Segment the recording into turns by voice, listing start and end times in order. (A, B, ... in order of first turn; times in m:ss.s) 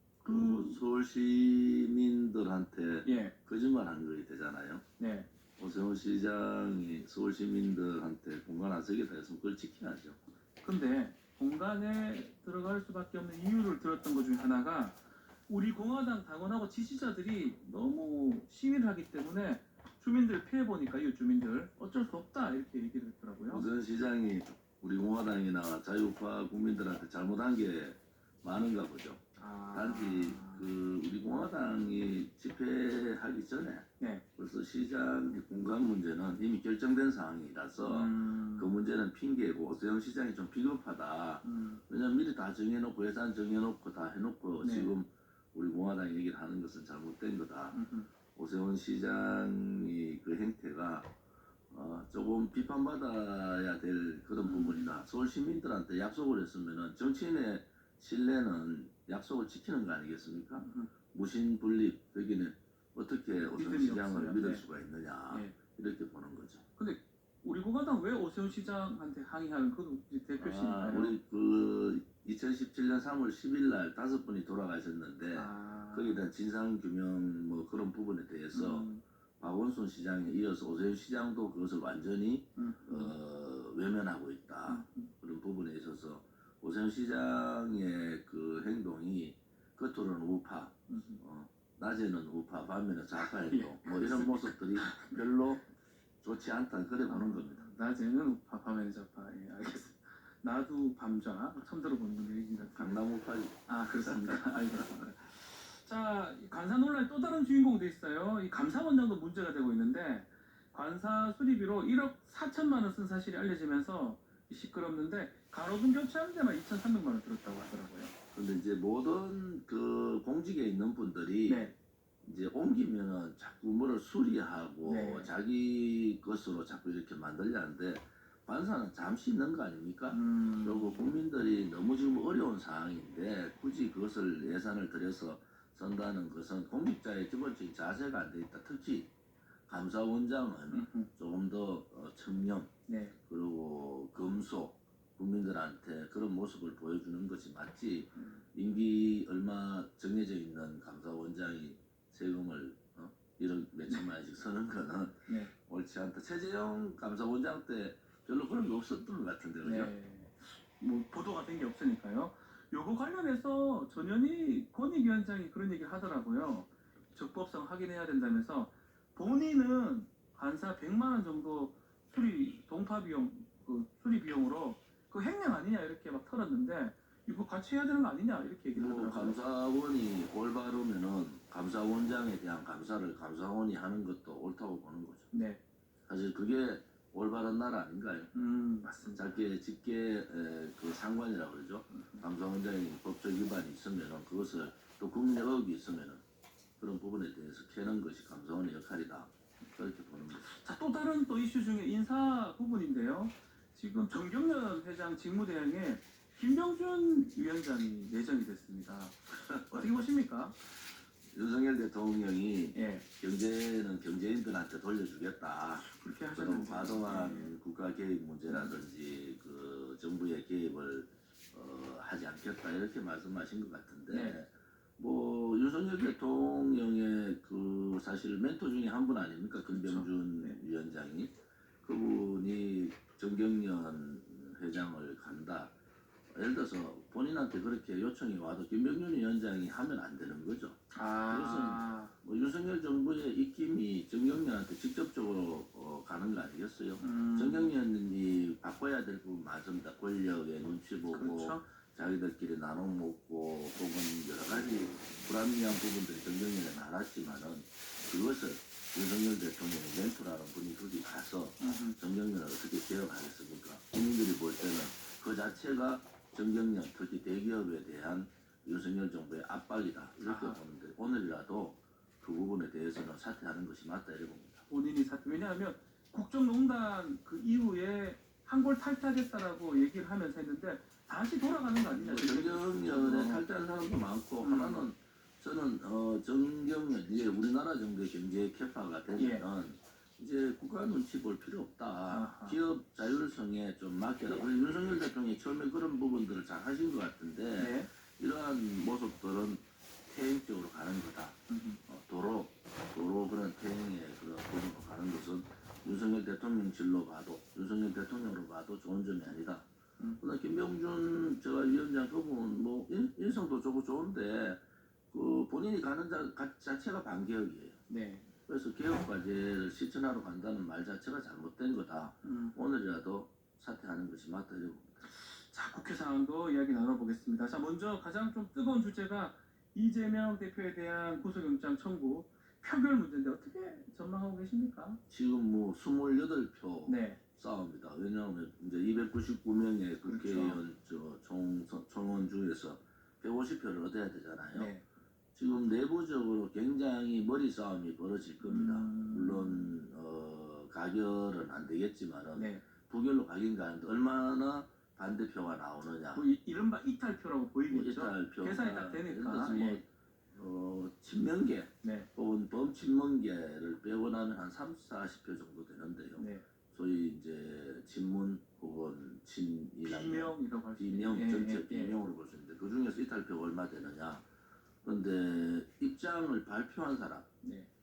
0:00.2-0:04.8 A
0:00.2-0:00.8 B
0:03.0-0:03.3 B
0:05.0-0:05.3 B
0:05.6-0:10.2 A
0:10.6-0:23.6 B
0:23.5-0:47.8 A
0:29.4-0:30.7 B
0:34.0-0:34.2 B
0:37.9-0:38.7 B
0:41.4-0:41.8 B
0:44.6-0:44.9 B
0:47.7-0:48.1 B
0:48.3-0:51.1 A
0:51.7-1:06.6 A
0:54.4-0:55.0 B
1:00.6-1:00.9 B
1:03.5-1:04.6 B
1:05.3-1:05.6 B
1:06.8-1:11.2 B
1:10.4-1:35.7 A
1:15.3-1:16.2 B
1:18.5-1:19.0 B
1:22.6-1:23.2 B
1:24.7-1:25.1 B
1:30.9-1:31.2 B
1:33.2-1:35.2 B
1:36.2-1:37.7 A
1:37.1-1:43.0 B
1:42.7-1:44.9 A
1:43.7-1:58.1 B
1:58.3-2:01.7 A
2:01.5-2:01.8 B
2:02.2-2:19.1 A
2:04.8-2:05.3 B
2:10.1-2:11.0 B
2:19.7-2:22.7 A
2:20.7-2:21.1 B
2:22.9-2:23.2 B
2:23.3-2:39.9 A
2:28.2-2:28.4 B
2:35.3-2:35.5 B
2:39.6-2:59.4 B
2:58.7-3:05.3 A
3:05.3-3:05.6 B
3:06.1-3:08.3 A
3:08.3-3:09.4 B
3:09.1-3:16.2 A
3:11.9-3:12.2 B
3:16.8-3:20.4 A
3:20.4-3:30.6 B
3:29.3-3:30.0 A
3:31.3-3:55.8 A
3:32.7-3:33.1 B
3:35.8-3:37.6 B
3:38.5-3:38.8 B
3:44.1-3:44.4 B
3:49.7-3:50.6 B
3:56.3-4:34.6 A
4:00.9-4:02.1 B
4:07.0-4:07.7 B
4:11.1-4:11.6 B
4:21.6-4:22.0 B
4:30.2-4:30.6 B
4:34.7-4:43.4 B
4:41.9-5:09.7 A
4:44.4-4:44.9 B
4:49.2-4:49.5 B
4:52.1-4:52.6 B
4:57.6-4:57.9 B
5:01.5-5:01.8 B
5:10.2-5:17.8 A
5:17.9-5:18.3 B
5:18.5-5:25.0 A
5:22.2-5:22.6 B
5:25.0-5:35.0 B
5:35.1-5:44.7 A
5:36.9-5:37.2 B
5:40.0-5:40.6 B
5:44.6-5:44.8 B
5:45.4-5:56.2 A
5:48.4-5:49.8 B
5:52.4-5:52.6 B
5:56.1-5:59.8 B
5:57.7-6:14.3 A
6:01.8-6:02.1 B
6:06.2-6:06.5 B
6:09.8-6:12.0 B
6:14.8-6:17.3 A
6:17.4-6:17.7 B